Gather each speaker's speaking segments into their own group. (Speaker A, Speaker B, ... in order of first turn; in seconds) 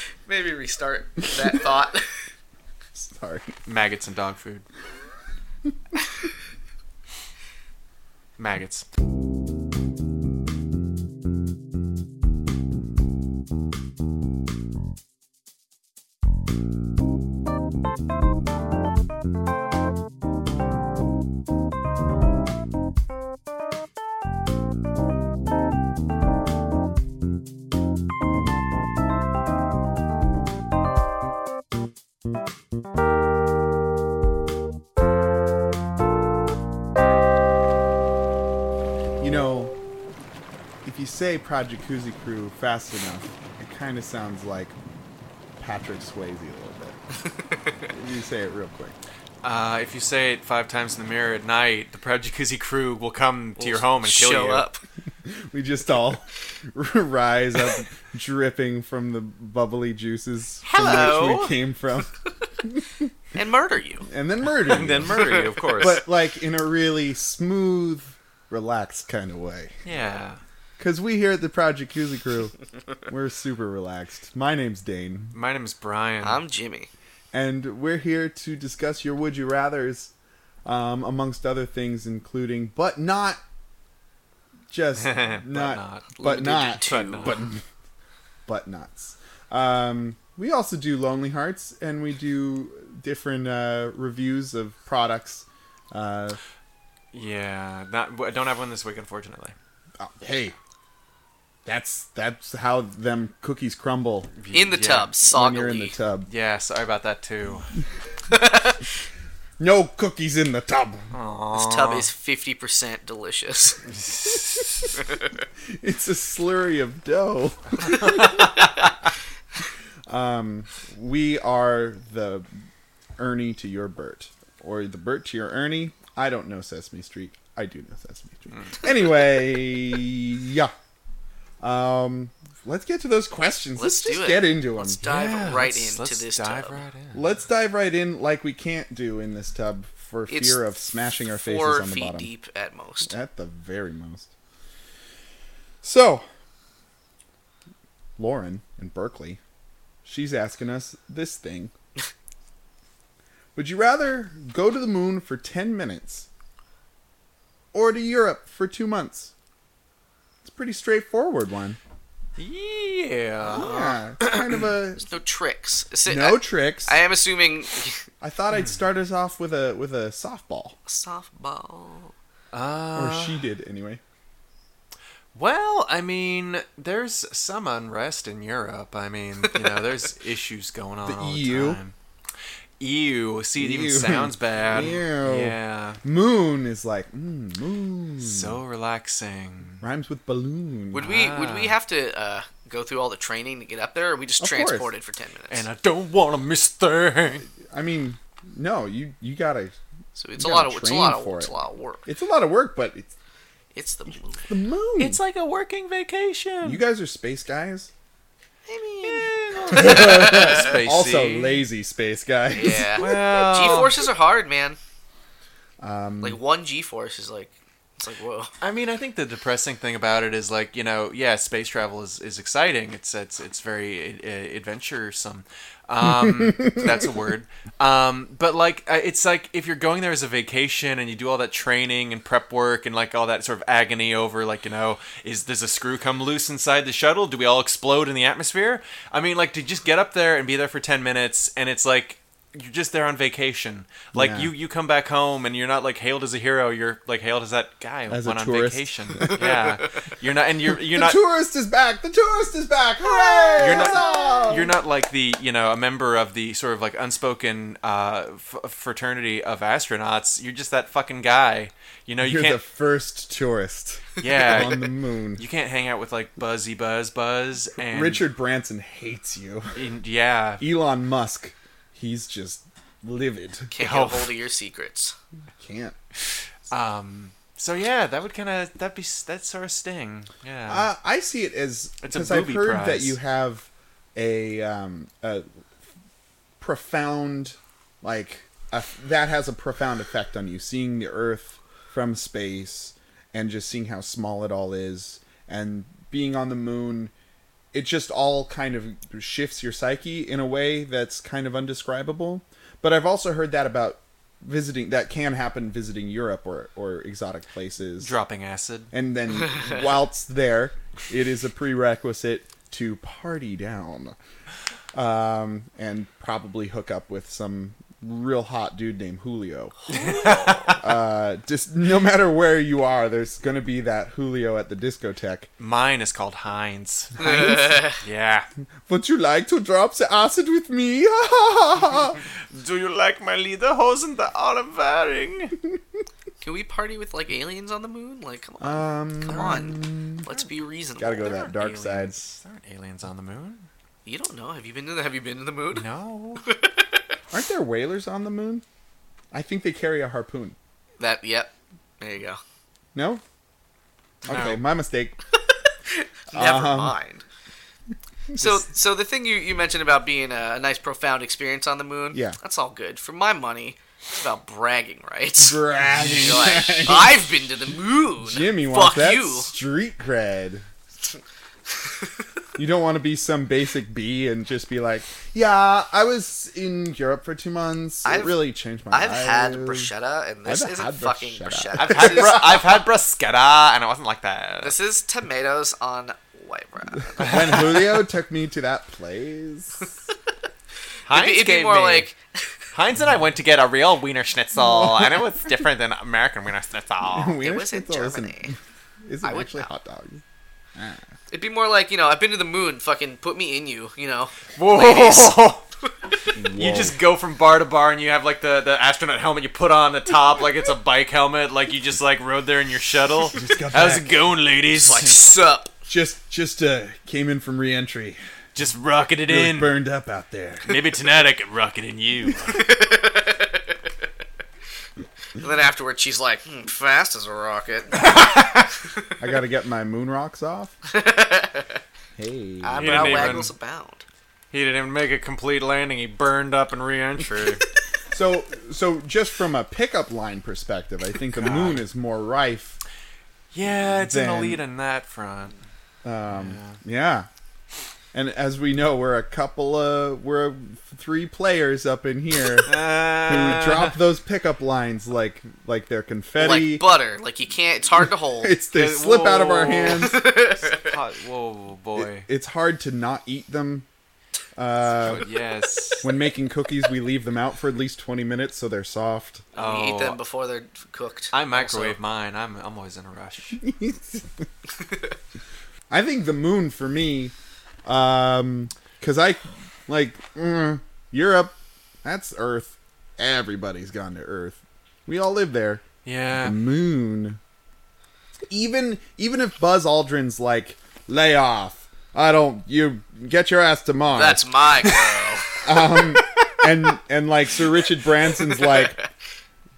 Speaker A: 0.2-2.1, 47.2-47.7, 53.6-54.8, 63.3-64.1, 65.1-65.8, 76.2-76.9, 86.1-87.4, 104.5-106.0, 108.3-108.9, 111.5-113.8, 118.0-118.4, 133.8-136.8, 140.3-140.6, 141.2-143.1, 165.0-168.0, 170.9-172.1, 190.9-195.6, 200.2-202.0, 203.7-204.5, 208.7-210.8, 212.5-214.8, 216.2-218.5, 249.3-249.7, 253.0-254.3, 273.7-275.1, 319.9-320.8, 327.2-328.0, 336.4-342.1, 344.1-345.8, 346.4-346.9, 351.0-352.4, 355.9-357.2, 358.3-369.5, 371.7-372.2, 378.0-382.6, 384.6-387.6, 391.1-392.2, 397.4-398.5, 399.2-399.7, 401.3-405.4, 414.8-415.7, 422.4-423.8, 425.4-428.1, 430.9-431.8, 432.6-434.0, 456.4-458.6, 459.9-460.9, 469.5-472.0, 494.1-495.6, 498.5-498.9
Speaker B: 2.9-3.5, 39.2-39.8, 40.8-44.8, 45.6-47.0, 47.9-49.0, 55.2-63.1, 64.0-69.8, 70.8-72.5, 73.1-75.3, 77.3-80.1, 80.6-83.4, 84.7-87.6, 88.5-96.4, 100.0-100.5, 101.6-104.3, 105.3-106.3, 109.6-111.1, 115.7-118.4, 120.1-122.5, 123.2-130.7, 131.6-135.0, 137.1-142.3, 143.1-144.3, 145.8-146.2, 148.2-149.4, 150.0-151.7, 153.5-156.3, 157.7-159.3, 160.4-161.8, 163.4-165.1, 166.1-167.0, 168.2-170.8, 172.9-174.0, 181.0-181.8, 183.6-188.6, 189.8-191.0, 194.4-194.9, 197.6-199.7, 200.4-201.5, 202.1-203.1, 204.4-205.2, 206.6-207.9, 209.7-213.0, 215.8-216.4, 226.0-227.1, 244.1-244.5, 248.1-249.4, 250.8-254.7, 262.2-265.4, 267.8-269.8, 270.6-273.7, 275.6-275.9, 280.7-285.4, 286.6-297.1, 297.7-308.1, 308.9-314.1, 314.9-319.9, 320.8-325.5, 327.2-327.8, 328.9-332.2, 338.6-340.3, 341.0-342.1, 347.3-348.6, 349.3-350.6, 352.9-353.2, 354.2-355.2, 356.3-356.9, 358.3-358.6, 362.1-362.4, 365.4-367.3, 368.2-370.7, 372.6-379.9, 380.4-382.6, 387.1-389.9, 394.6-395.1, 397.1-400.2, 400.7-401.1, 406.3-407.0, 413.3-414.2, 415.9-418.2, 419.3-420.8, 429.2-430.7, 432.2-433.4, 438.1-442.8, 443.8-444.6, 446.0-447.3, 448.1-456.8, 458.4-460.2, 462.0-463.9, 464.6-465.2, 466.0-469.4, 473.5-474.5, 475.9-477.3, 477.8-485.8, 486.3-487.4, 488.5-494.7, 495.6-499.0
Speaker C: 3.6-4.6, 8.4-8.9, 49.4-54.6, 60.6-61.5, 64.6-66.0, 69.8-70.4, 75.3-76.4, 85.0-86.1, 86.8-87.3, 97.1-99.5, 104.4-105.1, 106.3-107.7, 111.1-112.1, 113.9-115.0, 117.8-118.9, 135.0-137.3, 162.4-164.6, 172.5-173.4, 175.3-181.9, 182.8-186.0, 188.2-189.8, 191.0-191.8, 195.5-197.5, 205.0-206.8, 209.0-211.6, 213.0-214.0, 218.6-251.2, 253.6-262.6, 264.2-268.2, 269.7-270.6, 273.8-274.3, 276.7-280.9, 282.0-283.2, 308.0-308.9, 319.9-320.8, 325.6-328.5, 332.3-335.6, 341.2-343.7, 345.7-346.5, 354.2-354.6, 365.9-366.4, 381.8-384.7, 387.2-387.8, 391.1-392.1, 392.7-397.4, 404.5-405.6, 406.5-415.1, 418.5-419.7, 420.6-422.6, 428.1-428.6, 432.8-433.5, 434.5-437.6, 441.3-441.8, 443.5-445.6, 446.3-446.8, 452.6-454.0, 458.7-462.3, 464.8-466.1, 469.5-470.2, 471.3-473.6, 486.0-486.6